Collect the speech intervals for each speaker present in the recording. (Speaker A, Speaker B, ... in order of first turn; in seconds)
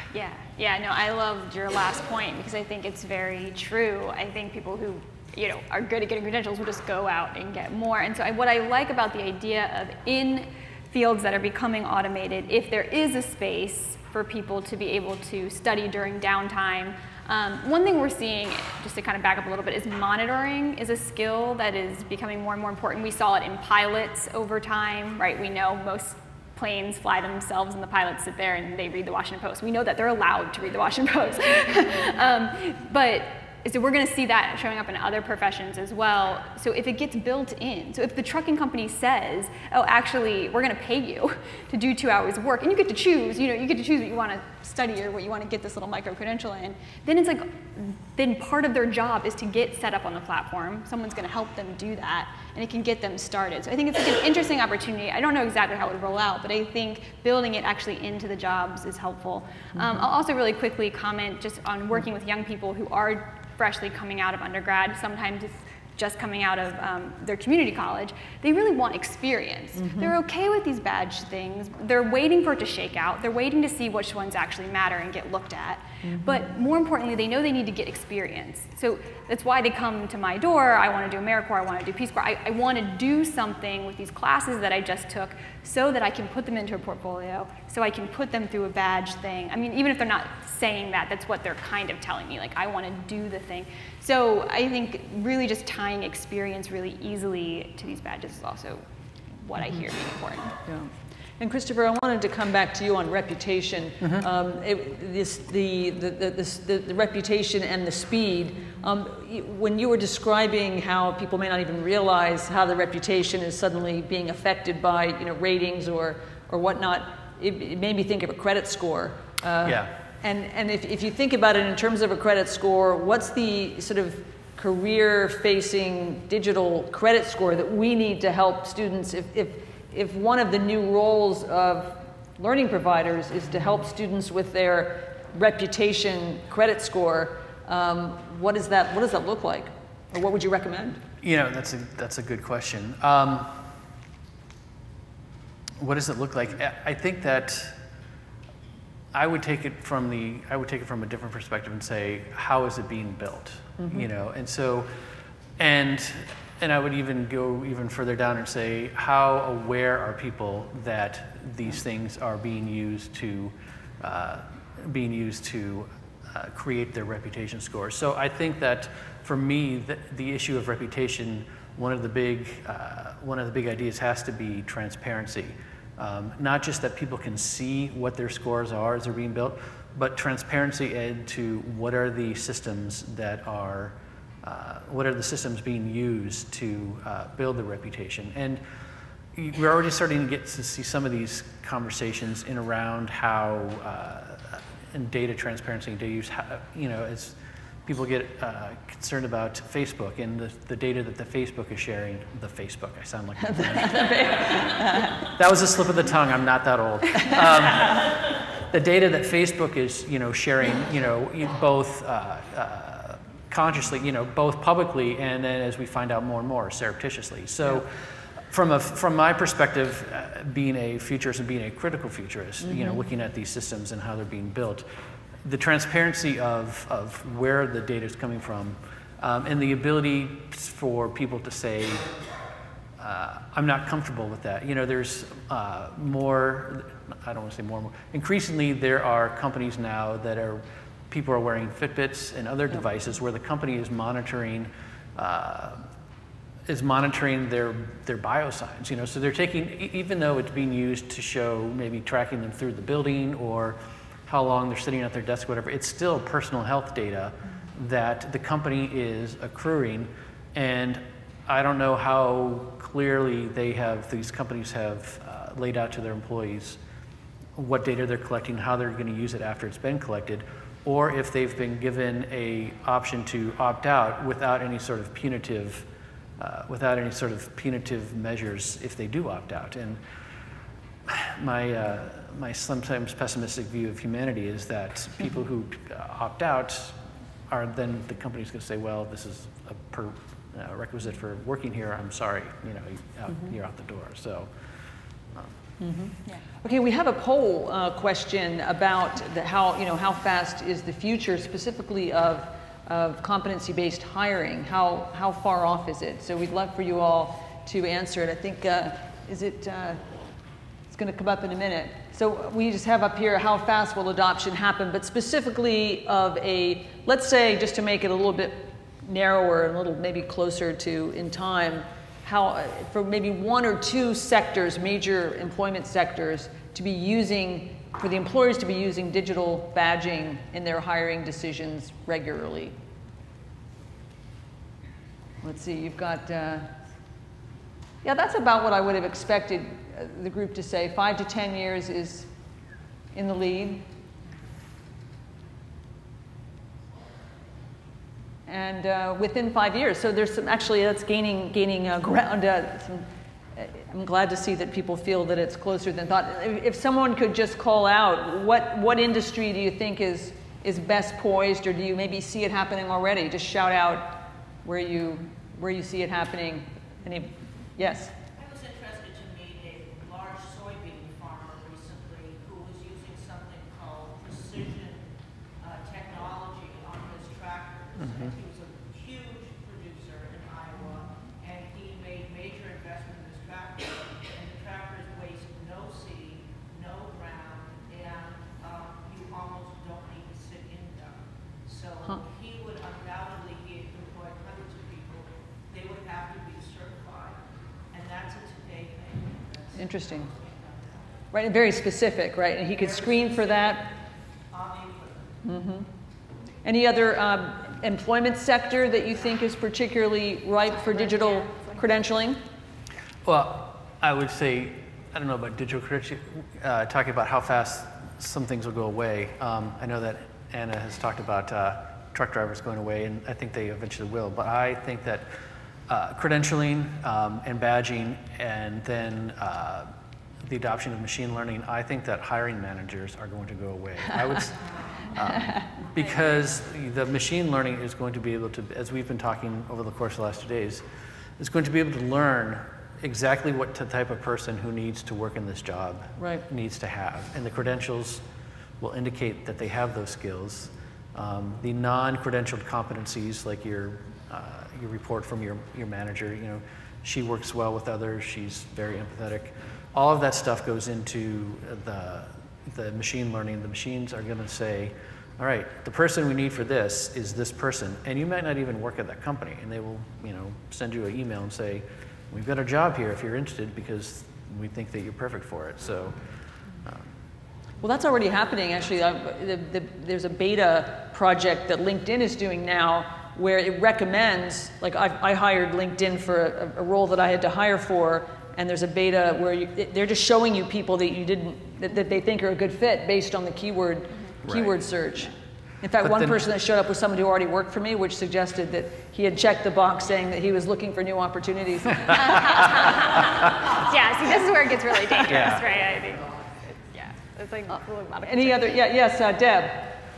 Speaker A: 0.1-98.8, 99.4-100.6, 410.9-411.8, 502.2-508.8
Speaker B: 59.8-60.0, 69.8-70.2, 76.0-76.4, 100.7-141.0, 153.8-154.1, 203.4-205.3, 207.2-207.7, 222.6-223.1, 293.3-293.5, 295.8-310.0, 310.9-332.8, 335.4-336.7, 338.0-342.3, 343.1-343.9, 348.5-368.1, 399.8-400.3, 401.3-403.9, 405.4-405.9, 406.6-412.4, 446.2-446.4, 477.8-502.7, 508.2-509.9
Speaker C: 119.6-119.9, 141.2-143.6, 145.8-147.8, 149.1-154.9, 155.6-188.6, 189.3-224.9, 225.4-232.1, 233.0-245.8, 246.7-266.8, 267.6-275.9, 276.4-280.0, 281.1-287.0, 287.5-294.5, 378.0-378.3, 413.2-425.3, 425.9-429.9, 430.4-440.8, 441.4-448.2, 448.8-476.2, 494.4-494.8, 496.0-496.4, 505.3-505.7
Speaker D: 368.4-375.0, 375.6-397.4, 397.9-401.2, 402.7-403.9, 404.5-405.4